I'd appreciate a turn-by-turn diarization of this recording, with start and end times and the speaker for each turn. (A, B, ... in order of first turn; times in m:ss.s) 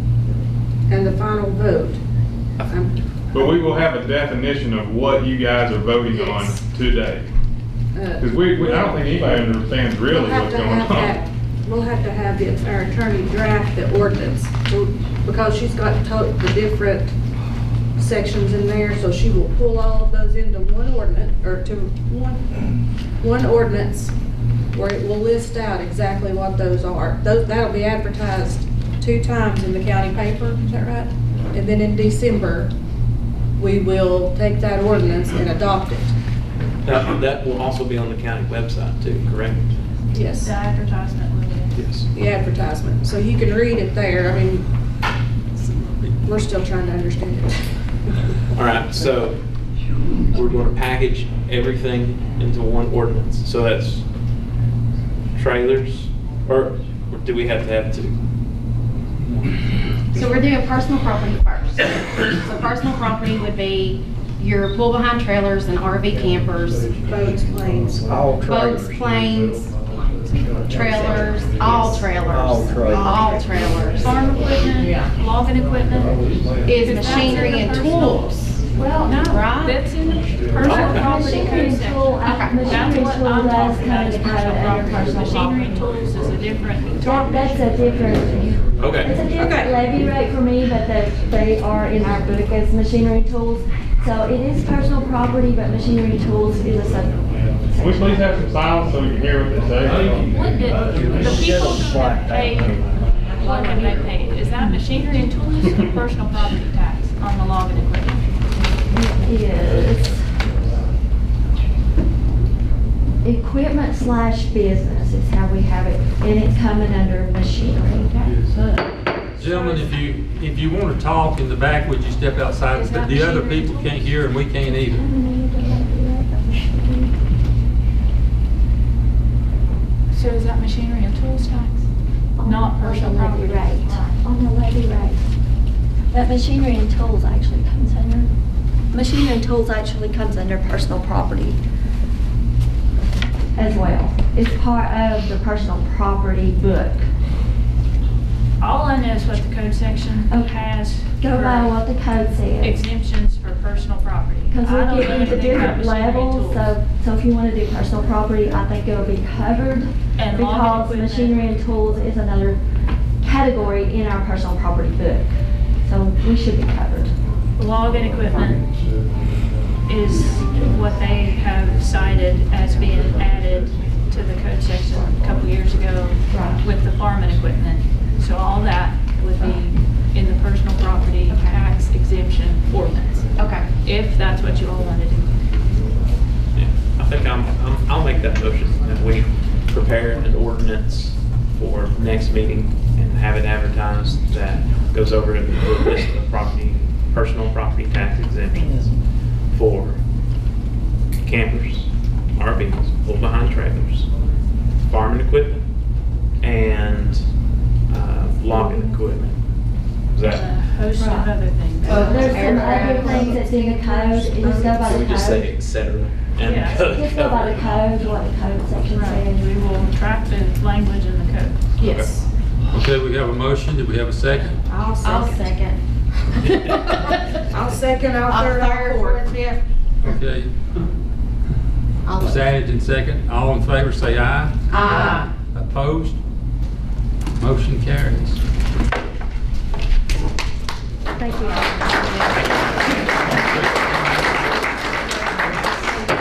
0:00.9-0:02.0 A
0:02.6-0:02.9 A
0:03.3-0:07.3 B
0:06.1-0:06.6 A
0:07.9-0:09.4 A
0:08.2-0:11.2 B
0:10.1-0:17.1 A
0:18.0-0:22.4 A
0:23.2-0:24.1 A
0:24.7-0:32.7 A
0:33.6-0:36.1 A
0:36.8-0:39.6 C
0:40.1-0:40.5 A
0:40.3-0:41.7 D
0:41.7-0:42.1 C
0:42.1-0:44.7 A
0:45.6-0:48.2 A
0:48.5-0:49.4 C
0:50.3-0:54.0 C
0:55.4-0:58.2 C
1:00.1-1:06.9 E
1:07.1-1:08.2 A
1:08.1-1:08.9 F
1:08.4-1:09.7 E
1:10.7-1:14.2 E
1:12.3-1:13.0 F
1:13.9-1:16.3 D
1:16.6-1:19.8 E
1:16.8-1:18.3 D
1:18.8-1:19.1 G
1:18.8-1:27.7 D
1:20.6-1:21.1 C
1:20.6-1:25.6 G
1:22.2-1:22.7 E
1:27.0-1:38.4 G
1:28.8-1:29.8 C
1:37.8-1:40.3 B
1:40.3-1:42.8 D
1:41.0-1:42.8 F
1:43.3-1:48.3 D
1:48.9-1:50.3 G
1:53.2-1:58.3 G
1:59.4-2:05.0 H
1:59.4-2:00.2 D
2:02.7-2:04.2 D
2:04.6-2:07.1 G
2:10.1-2:11.9 D
2:12.4-2:15.2 G
2:12.4-2:14.2 D
2:16.1-2:18.3 G
2:18.9-2:21.6 G
2:23.6-2:27.1 G
2:28.6-2:31.8 D
2:30.3-2:32.8 G
2:32.6-2:36.8 D
2:34.5-2:42.6 G
2:40.2-2:41.4 D
2:43.2-2:47.2 G
2:47.6-2:48.7 D
2:49.9-3:05.5 D
2:56.3-2:56.6 G
3:01.3-3:01.6 E
3:03.4-3:03.7 E
3:06.6-3:20.0 C
3:21.2-3:24.1 C
3:24.8-3:25.6 C
3:26.4-3:27.3 C
3:27.9-3:29.4 C
3:28.5-3:29.0 G
3:30.1-3:30.6 C
3:30.2-3:33.4 D
3:30.9-3:31.3 G
3:31.8-3:35.5 G
3:31.8-3:33.4 E
3:34.8-3:37.9 C
3:36.4-3:36.9 D
3:36.8-3:39.5 G
3:38.9-3:41.7 D
3:41.8-3:42.3 A
3:41.8-3:42.2 C
3:42.7-3:44.6 H
3:44.7-3:45.8 E
3:44.7-3:45.3 A
3:47.0-3:47.6 E
3:47.5-3:49.3 A
3:48.2-3:49.6 E
3:50.0-3:50.5 H
3:52.0-3:52.4 E
3:52.2-3:56.2 H
3:54.7-3:55.3 E
3:57.4-3:58.4 H
4:01.2-4:02.1 G
4:03.0-4:04.3 H